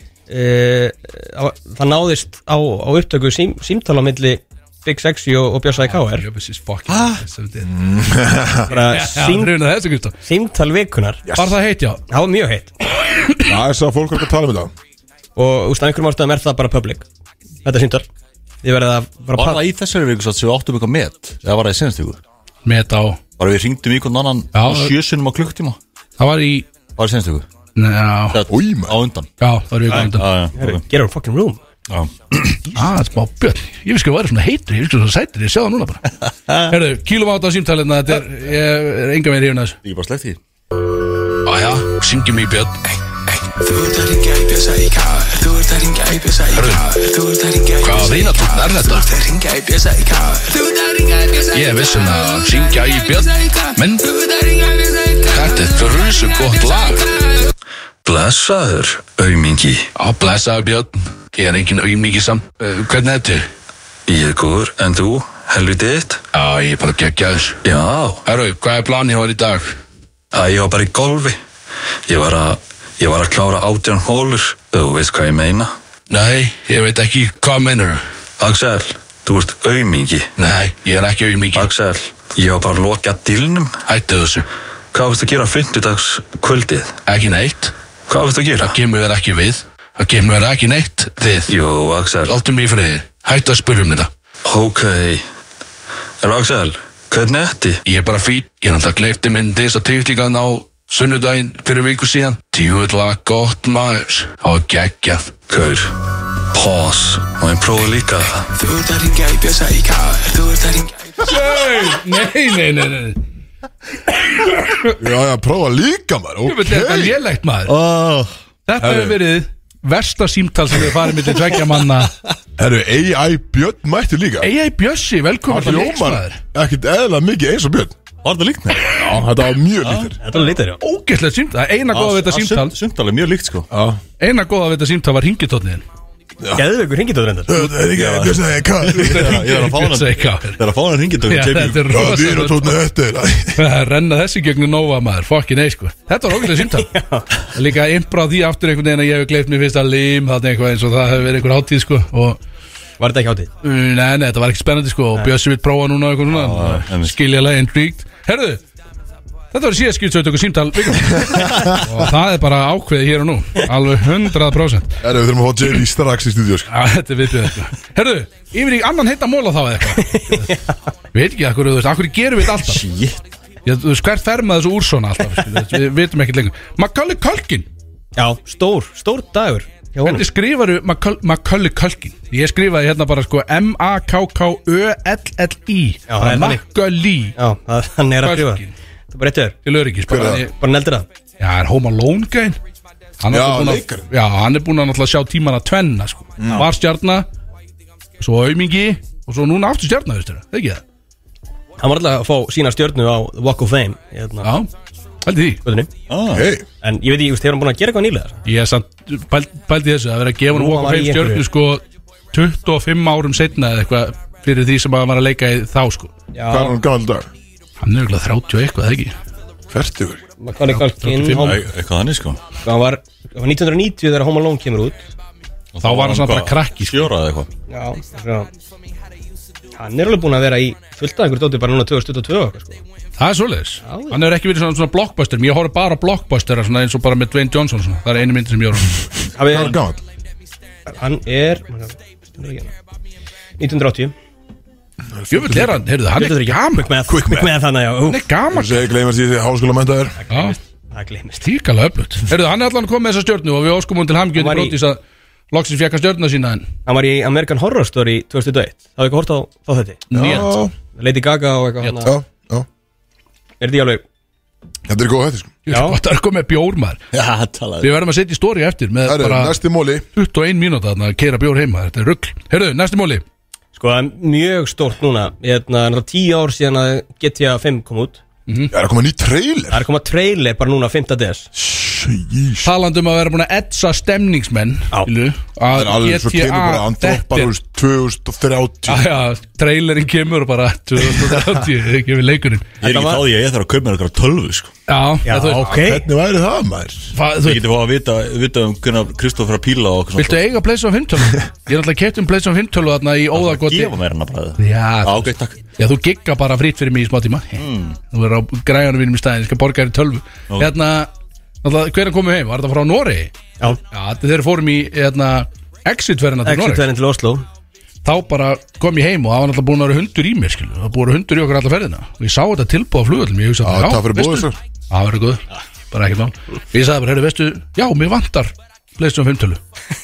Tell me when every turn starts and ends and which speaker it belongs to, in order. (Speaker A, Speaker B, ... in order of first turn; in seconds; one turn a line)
Speaker A: 0.3-6.3
Speaker B: 5.9-7.7
Speaker C: 7.6-8.7
Speaker A: 8.7-9.6
Speaker B: 8.7-10.2
Speaker A: 10.2-11.3
Speaker C: 11.3-11.5
Speaker B: 11.4-12.0
Speaker A: 12.1-12.7
Speaker C: 13.4-14.7
Speaker A: 15.4-17.1
Speaker A: 17.6-18.1
Speaker A: 18.6-19.6
Speaker D: 19.4-22.2
Speaker B: 22.7-23.2
Speaker D: 23.4-25.8
Speaker B: 24.5-24.9
Speaker B: 26.2-26.7
Speaker D: 27.0-27.4
Speaker B: 27.8-28.4
Speaker D: 28.3-29.3
Speaker C: 28.5-29.0
Speaker B: 29.4-30.3
Speaker D: 29.9-30.8
Speaker A: 29.9-31.6
Speaker D: 31.9-32.7
Speaker B: 32.7-36.0
Speaker D: 36.2-36.7
Speaker B: 36.7-39.8
Speaker D: 39.8-40.4
Speaker B: 41.5-42.7
Speaker E: 43.6-57.5
Speaker B: 46.5-46.8
Speaker B: 47.8-49.1
Speaker B: 51.5-54.0
Speaker B: 55.3-57.0
Speaker F: 58.0-59.9
Speaker B: 60.0-63.4
Speaker F: 64.1-66.2
Speaker B: 66.3-67.6
Speaker F: 67.6-68.3
Speaker B: 68.3-69.6
Speaker F: 70.3-71.4
Speaker F: 72.1-75.7
Speaker B: 76.1-78.0
Speaker F: 78.4-80.3
Speaker B: 80.4-81.7
Speaker F: 81.5-83.9
Speaker B: 83.9-84.4
Speaker F: 84.9-87.0
Speaker B: 87.1-87.7
Speaker F: 88.1-88.8
Speaker B: 88.6-91.5
Speaker F: 91.5-92.4
Speaker B: 92.3-94.1
Speaker F: 94.5-95.2
Speaker F: 96.2-97.8
Speaker B: 97.9-105.2
Speaker F: 105.5-106.0
Speaker F: 106.5-108.5
Speaker E: 108.5-111.3
Speaker B: 111.2-113.2
Speaker B: 114.3-115.0
Speaker C: 114.9-117.2
Speaker B: 116.5-117.7
Speaker D: 117.7-118.3
Speaker B: 118.7-122.1
Speaker C: 118.8-119.2
Speaker C: 122.6-124.5
Speaker B: 124.4-126.4
Speaker C: 125.5-128.0
Speaker D: 128.2-129.0
Speaker C: 128.9-130.2
Speaker D: 129.8-130.1
Speaker A: 130.2-130.8
Speaker B: 130.8-132.7
Speaker D: 131.9-133.7
Speaker C: 133.7-134.0
Speaker B: 134.2-135.8
Speaker A: 136.5-137.6
Speaker C: 137.5-139.4
Speaker D: 137.9-138.4
Speaker B: 138.9-140.6
Speaker D: 138.9-142.0
Speaker B: 141.3-142.8
Speaker C: 141.9-143.6
Speaker B: 143.6-146.9
Speaker A: 146.4-147.3
Speaker B: 147.5-152.4
Speaker A: 153.0-153.5
Speaker B: 153.6-158.6
Speaker D: 156.3-157.2
Speaker B: 159.5-165.0
Speaker C: 165.0-166.7
Speaker B: 166.7-170.5
Speaker A: 170.0-170.8
Speaker B: 171.1-172.8
Speaker D: 172.7-173.3
Speaker B: 173.7-177.7
Speaker A: 178.2-180.2
Speaker B: 180.0-187.4
Speaker A: 186.1-186.6
Speaker A: 187.4-189.6
Speaker B: 188.2-188.7
Speaker B: 189.7-190.5
Speaker C: 190.1-190.5
Speaker A: 190.5-191.1
Speaker B: 191.4-192.6
Speaker B: 193.2-197.3
Speaker C: 193.3-194.1
Speaker C: 196.4-196.7
Speaker B: 198.2-200.8
Speaker A: 201.8-204.5
Speaker B: 204.4-204.7
Speaker B: 205.2-205.6
Speaker A: 205.7-205.9
Speaker D: 206.1-206.5
Speaker C: 206.3-206.7
Speaker A: 206.8-208.4
Speaker B: 208.4-216.1
Speaker A: 210.5-211.4
Speaker A: 216.3-216.8
Speaker C: 216.5-217.3
Speaker B: 217.8-219.1
Speaker C: 219.7-220.2
Speaker A: 220.4-221.6
Speaker B: 220.7-221.6
Speaker D: 221.3-222.4
Speaker A: 222.6-225.1
Speaker D: 225.7-227.5
Speaker B: 225.8-227.1
Speaker A: 227.7-228.5
Speaker A: 229.8-232.8
Speaker B: 233.2-239.0
Speaker A: 233.8-234.2
Speaker A: 239.3-239.8
Speaker C: 239.4-240.0
Speaker A: 240.9-242.7
Speaker A: 243.6-244.1
Speaker C: 245.1-245.8
Speaker B: 245.3-246.9
Speaker A: 246.2-248.2
Speaker C: 247.1-247.5
Speaker B: 248.1-248.9
Speaker C: 248.5-250.2
Speaker A: 250.2-251.5
Speaker B: 250.3-250.6
Speaker B: 251.4-255.0
Speaker A: 254.3-254.8
Speaker B: 255.5-256.7
Speaker A: 256.9-260.4
Speaker B: 260.1-260.5
Speaker C: 260.1-260.7
Speaker A: 260.9-262.1
Speaker C: 262.0-262.7
Speaker A: 263.6-264.0
Speaker C: 264.9-265.6
Speaker B: 265.7-267.0
Speaker A: 265.7-266.0
Speaker D: 267.1-267.9
Speaker B: 267.8-269.6
Speaker C: 269.1-270.1
Speaker B: 270.1-273.2
Speaker A: 273.8-278.2
Speaker B: 278.5-278.7
Speaker C: 278.7-279.9
Speaker A: 279.7-281.5
Speaker C: 281.6-282.7
Speaker B: 282.6-287.5
Speaker C: 285.7-289.1
Speaker B: 288.9-292.7
Speaker D: 292.8-294.7
Speaker A: 292.8-293.2
Speaker B: 294.9-295.7
Speaker A: 295.3-296.1
Speaker C: 295.5-297.1
Speaker B: 297.1-297.6
Speaker D: 297.4-300.6
Speaker B: 300.2-304.0
Speaker D: 303.3-305.6
Speaker B: 304.6-311.1
Speaker D: 307.6-308.0
Speaker B: 311.6-313.3
Speaker B: 313.9-316.9
Speaker A: 316.4-317.5
Speaker B: 318.0-329.6
Speaker C: 323.6-324.6